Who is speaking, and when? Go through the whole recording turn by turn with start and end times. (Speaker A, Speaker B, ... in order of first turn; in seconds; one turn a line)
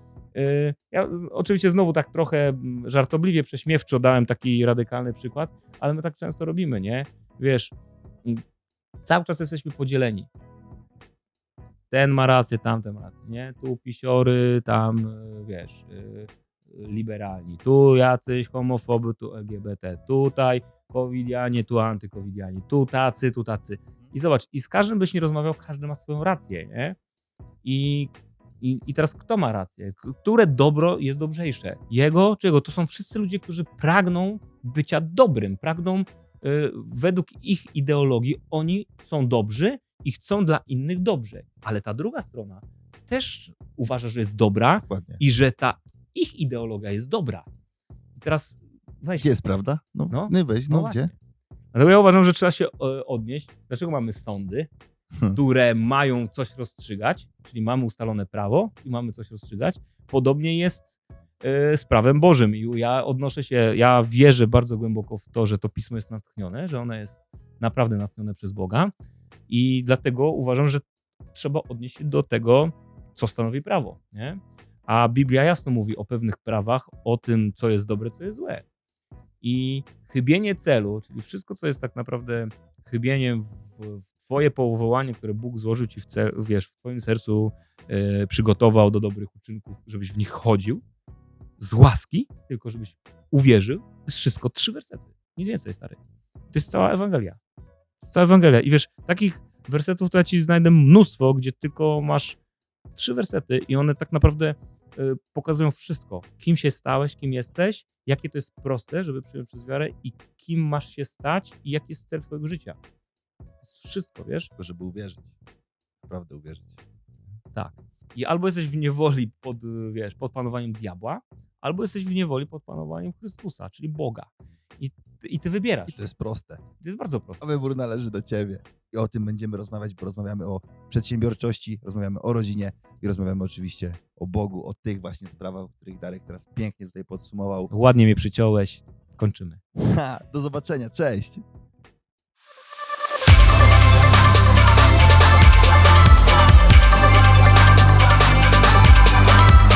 Speaker A: 0.3-7.7
Speaker A: 9.0-10.3
Speaker A: 11.9-27.0
Speaker A: 27.6-47.5
Speaker B: 44.8-45.2
Speaker A: 48.1-49.3
Speaker B: 49.2-51.1
Speaker A: 50.1-51.1
Speaker A: 51.7-54.7
Speaker B: 55.1-55.4
Speaker A: 55.3-60.9
Speaker A: 61.4-68.9
Speaker A: 69.5-78.6
Speaker A: 79.4-90.8
Speaker A: 91.6-96.0
Speaker A: 96.5-97.4
Speaker A: 98.0-102.4
Speaker A: 102.9-112.8
Speaker A: 113.6-114.5
Speaker B: 114.6-115.3
Speaker B: 116.0-116.8
Speaker A: 117.5-126.0
Speaker B: 125.9-126.6
Speaker A: 126.8-127.4
Speaker B: 127.4-137.7
Speaker A: 137.7-139.6
Speaker B: 139.8-141.4